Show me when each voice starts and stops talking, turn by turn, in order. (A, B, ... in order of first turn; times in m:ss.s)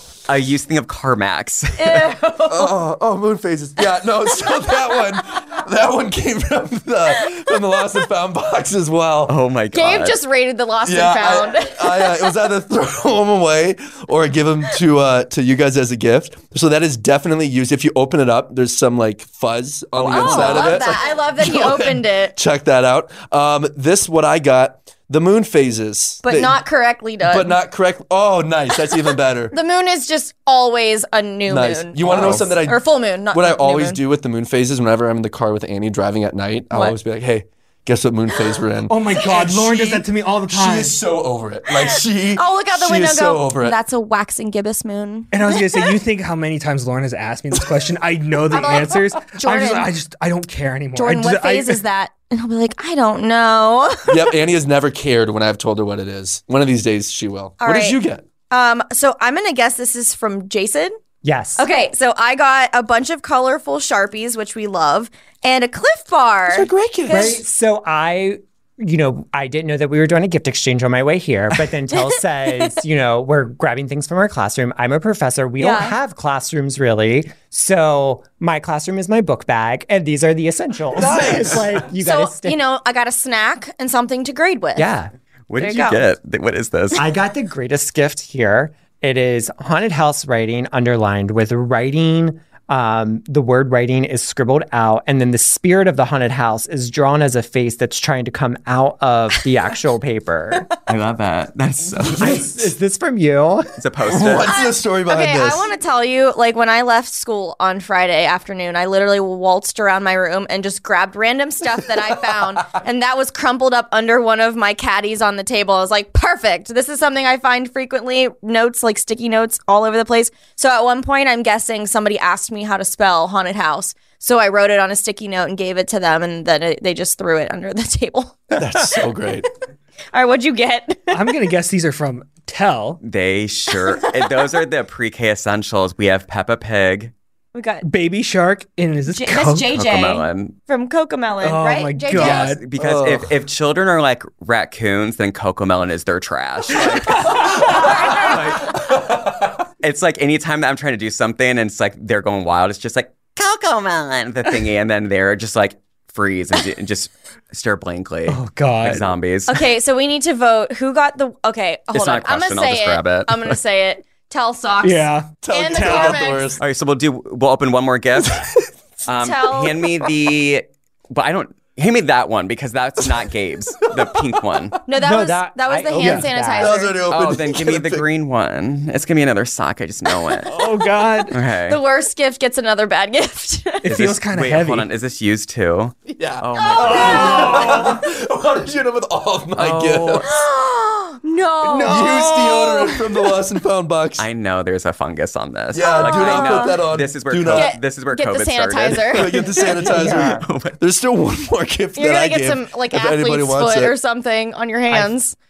0:00.3-0:02.1 A
0:01.8-0:02.8 B
0:02.5-0:09.4 C
0:04.5-0:05.0 B
0:09.3-0:10.2 A
0:09.7-0:12.4 B
0:10.8-0:26.6 C
0:20.0-0:20.9 A
0:20.1-0:22.4 B
0:26.2-0:27.6 B
0:27.2-0:29.6 C
0:29.5-0:34.0 B
0:31.5-0:43.8 C
0:32.1-0:32.5 A
0:36.7-0:37.0 B
0:38.9-0:41.0 D
0:41.8-0:46.0 B
0:45.3-0:51.8 D
0:48.5-0:49.9 B
0:51.0-0:54.2 B
0:54.1-0:58.2 C
0:57.6-0:58.0 B
0:58.5-1:01.0 B
1:01.2-1:01.6 E
1:01.6-1:07.4 B
1:06.5-1:07.4 C
1:07.1-1:22.6 E
1:15.6-1:16.0 B
1:21.0-1:21.8 C
1:22.0-1:24.9 B
1:24.8-1:25.1 E
1:25.5-1:27.0 A
1:25.6-1:26.0 B
1:27.0-1:40.7 E
1:40.9-1:42.5 A
1:42.1-1:43.8 E
1:42.2-1:42.6 C
1:43.8-1:44.6 A
1:44.0-1:45.6 C
1:44.5-2:08.6 B
2:08.6-2:09.5 C
2:10.1-2:11.4 B
2:11.1-2:13.0 D
2:13.0-2:17.1 A
2:13.7-2:14.4 B
2:17.5-2:17.9 B
2:17.8-2:19.7 D
2:19.1-2:22.5 B
2:19.7-2:20.6 A
2:21.4-2:22.6 D
2:22.1-2:29.0 A
2:22.7-2:23.4 C
2:27.1-2:27.8 D
2:27.3-2:29.6 C
2:27.7-2:28.6 B
2:29.8-2:39.6 A
2:38.3-2:39.1 D
2:39.5-2:46.6 B
2:41.9-2:43.6 A
2:44.8-2:46.2 D
2:45.4-2:46.6 C
2:46.6-2:54.8 A
2:49.2-2:49.9 B
2:53.9-2:54.2 C
2:54.9-2:57.0 B
2:55.0-2:56.8 E
2:56.0-2:56.3 D
2:56.6-2:58.1 C
2:57.1-3:00.5 A
3:00.5-3:01.4 D
3:00.5-3:01.0 C
3:01.3-3:01.8 A
3:01.7-3:03.9 B
3:03.8-3:04.9 D
3:03.9-3:07.8 A
3:06.1-3:10.3 C
3:06.6-3:07.7 B
3:06.9-3:08.0 D
3:09.6-3:10.3 A
3:10.2-3:13.4 B
3:11.6-3:14.3 C
3:14.2-3:20.8 A
3:15.7-3:17.7 C
3:15.8-3:16.8 B
3:17.5-3:19.8 B
3:19.1-3:24.0 C
3:19.9-3:20.4 E
3:22.0-3:25.4 B